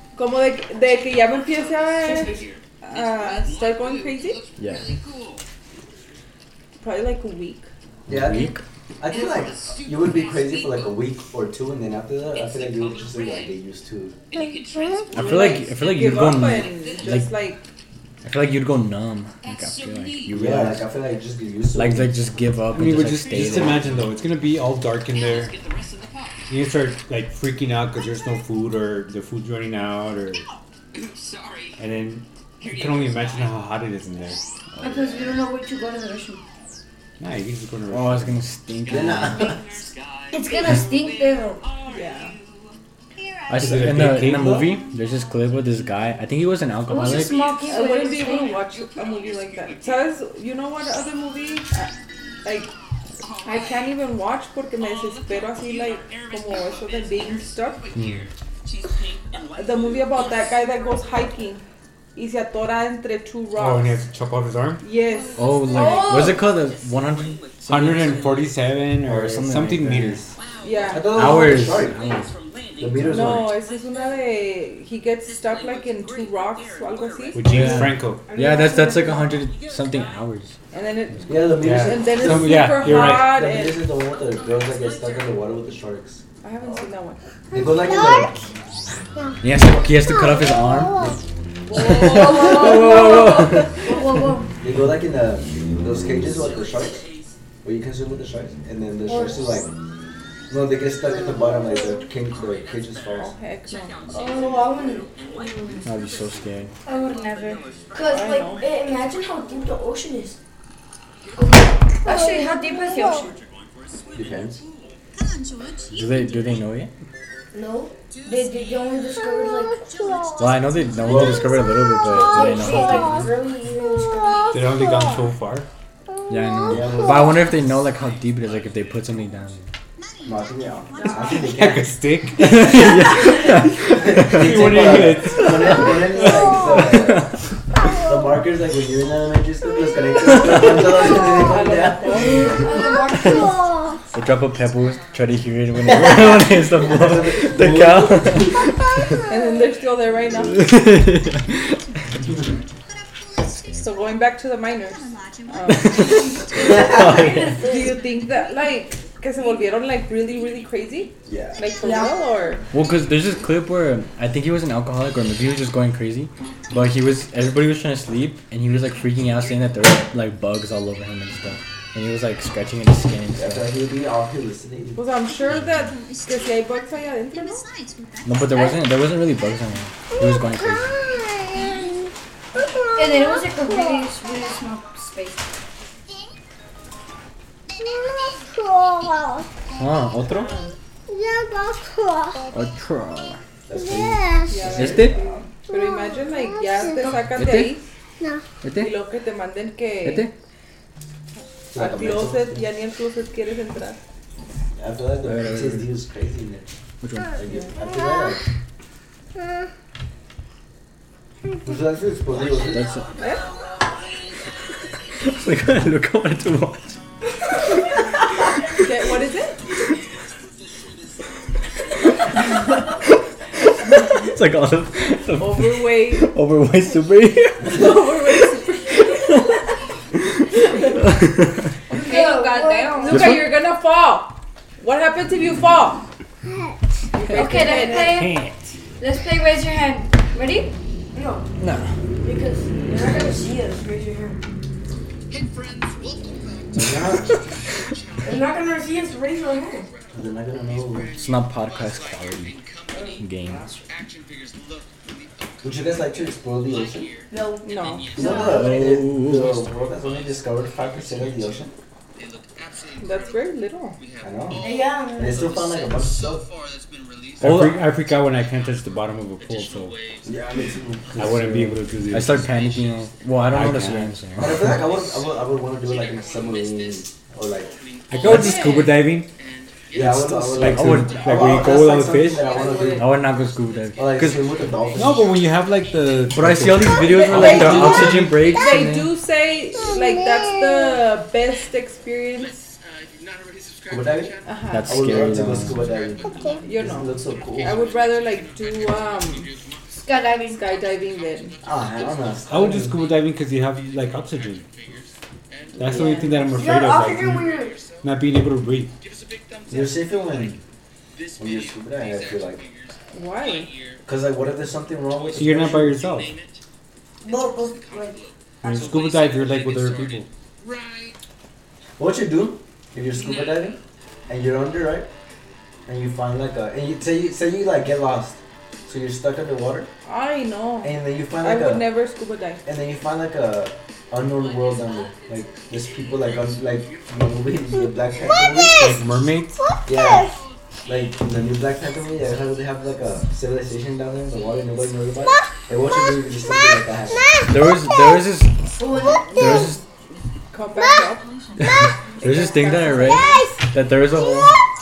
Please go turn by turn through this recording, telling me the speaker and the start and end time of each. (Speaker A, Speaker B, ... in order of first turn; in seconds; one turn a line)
Speaker A: 0.1-4.4
Speaker B: 2.0-2.5
Speaker C: 4.6-4.9
Speaker A: 6.8-7.7
Speaker D: 8.1-14.2
Speaker C: 8.1-8.6
Speaker C: 15.1-17.3
Speaker A: 15.1-17.6
Speaker C: 18.2-20.8
Speaker D: 20.3-22.1
Speaker C: 21.7-24.1
Speaker E: 22.7-25.5
Speaker E: 26.5-30.4
Speaker E: 31.8-34.4
Speaker F: 34.8-36.4
Speaker E: 37.2-38.4
Speaker C: 37.9-39.6
Speaker D: 38.9-39.6
Speaker F: 40.3-41.6
Speaker A: 41.9-42.4
Speaker C: 43.5-47.4
Speaker E: 43.6-44.8
Speaker F: 46.9-48.6
Speaker A: 47.7-51.9
Speaker A: 52.4-52.7
Speaker A: 53.4-57.9
Speaker C: 57.9-58.3
Speaker A: 59.5-61.6
Speaker A: 62.1-64.0
Speaker E: 63.6-64.8
Speaker A: 64.8-66.5
Speaker C: 65.4-68.2
Speaker E: 67.7-70.3
Speaker C: 69.0-70.2
Speaker A: 70.6-71.2
Speaker D: 70.9-72.0
Speaker C: 71.1-72.3
Speaker D: 72.8-73.6
Speaker A: 73.1-77.8
Speaker E: 77.3-78.2
Speaker C: 77.5-80.6
Speaker B: 78.2-79.4
Speaker A: 80.7-83.9
Speaker D: 81.3-86.2
Speaker E: 81.6-83.3
Speaker A: 86.4-87.2
Speaker D: 87.5-88.3
Speaker C: 89.4-91.2
Speaker A: 91.7-92.7
Speaker C: 91.7-93.7
Speaker F: 91.7-94.5
Speaker D: 94.6-97.0
Speaker D: 97.6-99.7
Speaker B: 99.1-99.4
Speaker D: 100.5-103.3
Speaker A: 103.2-104.1
Speaker B: 104.1-105.9
Speaker C: 105.8-106.7
Speaker F: 106.9-107.6
Speaker B: 107.9-110.4
Speaker A: 108.1-108.7
Speaker F: 112.0-113.4
Speaker D: 114.1-114.6
Speaker C: 115.9-116.9
Speaker B: 117.5-119.8
Speaker C: 120.4-123.2
Speaker D: 121.0-121.5
Speaker B: 122.1-124.6
Speaker E: 124.5-125.7
Speaker C: 126.3-129.7
Speaker D: 126.7-127.5
Speaker D: 130.2-131.9
Speaker B: 130.9-131.4
Speaker E: 131.4-132.6
Speaker C: 132.4-137.3
Speaker D: 133.9-137.3
Speaker E: 134.2-136.0
Speaker D: 137.9-142.5
Speaker C: 140.5-140.8
Speaker A: 141.3-142.7
Speaker B: 142.3-143.7
Speaker C: 144.1-149.1
Speaker D: 145.9-148.6
Speaker A: 149.3-150.7
Speaker C: 150.4-151.8
Speaker C: 153.4-153.8
Speaker A: 153.8-156.4
Speaker C: 155.7-157.6
Speaker B: 156.4-158.0
Speaker A: 157.6-162.6
Speaker D: 161.2-161.6
Speaker B: 161.8-162.1
Speaker C: 162.7-173.6
Speaker D: 173.4-175.0
Speaker A: 174.9-177.7
Speaker C: 178.2-181.0
Speaker F: 182.9-185.5
Speaker C: 189.8-190.5
Speaker A: 190.3-190.7
Speaker C: 192.5-193.4
Speaker D: 193.7-195.2
Speaker A: 194.5-197.8
Speaker C: 194.8-195.1
Speaker C: 197.3-197.7
Speaker C: 198.6-198.9
Speaker A: 198.7-200.3
Speaker C: 200.0-200.3
Speaker D: 201.7-202.6
Speaker A: 201.7-204.0
Speaker D: 204.8-206.7
Speaker C: 205.2-205.9
Speaker C: 207.0-207.3
Speaker D: 207.3-208.4
Speaker D: 211.6-212.8
Speaker C: 212.7-213.1
Speaker A: 213.2-213.4
Speaker C: 215.2-217.0
Speaker A: 218.8-219.6
Speaker C: 223.8-228.3
Speaker A: 225.4-226.3
Speaker A: 227.6-229.1
Speaker C: 229.0-229.6
Speaker C: 231.1-231.6
Speaker B: 231.9-233.1
Speaker F: 231.9-233.2
Speaker A: 233.0-236.0
Speaker C: 233.1-233.5
Speaker A: 237.1-238.2
Speaker F: 237.3-238.4
Speaker B: 237.6-238.1
Speaker C: 237.9-238.6
Speaker F: 239.0-240.7
Speaker B: 241.1-241.4
Speaker C: 241.6-241.9
Speaker B: 242.2-244.4
Speaker D: 246.7-247.3
Speaker B: 248.2-249.9
Speaker D: 250.1-251.1
Speaker C: 251.1-252.6
Speaker C: 253.2-253.8
Speaker D: 255.6-257.1
Speaker B: 257.3-258.7
Speaker A: 257.6-258.2
Speaker D: 258.1-261.7
Speaker C: 258.3-259.6
Speaker A: 263.0-264.0
Speaker D: 264.2-266.5
Speaker B: 264.6-265.5
Speaker C: 267.4-267.8
Speaker E: 267.4-270.0
Speaker D: 270.2-271.2
Speaker E: 271.1-272.5
Speaker C: 271.2-274.8
Speaker E: 273.5-274.1
Speaker D: 274.4-277.7
Speaker E: 278.1-279.3
Speaker C: 278.2-278.6
Speaker D: 279.9-283.1
Speaker C: 280.0-281.5
Speaker E: 280.0-282.5
Speaker A: 282.4-283.1
Speaker C: 282.9-284.5
Speaker D: 284.0-285.3
Speaker E: 284.9-288.4
Speaker C: 286.3-289.1
Speaker D: 287.3-288.2
Speaker A: 287.5-292.7
Speaker D: 293.9-297.9
Speaker A: 294.5-295.0
Speaker C: 294.7-295.9
Speaker A: 296.6-299.5
Speaker F: 300.0-300.6
Speaker A: 300.5-301.6
Speaker D: 301.6-303.0
Speaker E: 302.5-304.6
Speaker E: 305.8-308.9
Speaker A: 305.8-306.5
Speaker B: 306.5-307.8
Speaker D: 309.7-310.6
Speaker D: 311.4-312.6
Speaker A: 313.1-313.7
Speaker D: 314.0-316.0
Speaker E: 315.4-316.3
Speaker B: 317.2-318.2
Speaker E: 318.6-320.3
Speaker D: 322.0-325.1
Speaker D: 325.9-329.9
Speaker A: 330.0-332.6
Speaker D: 330.8-331.9
Speaker D: 332.6-338.9
Speaker E: 338.8-339.6
Speaker D: 339.9-340.4
Speaker D: 340.9-347.3
Speaker C: 347.4-348.7
Speaker B: 348.8-349.5
Speaker C: 349.4-349.8
Speaker A: 350.5-351.3
Speaker A: 352.2-353.6
Speaker C: 352.2-354.5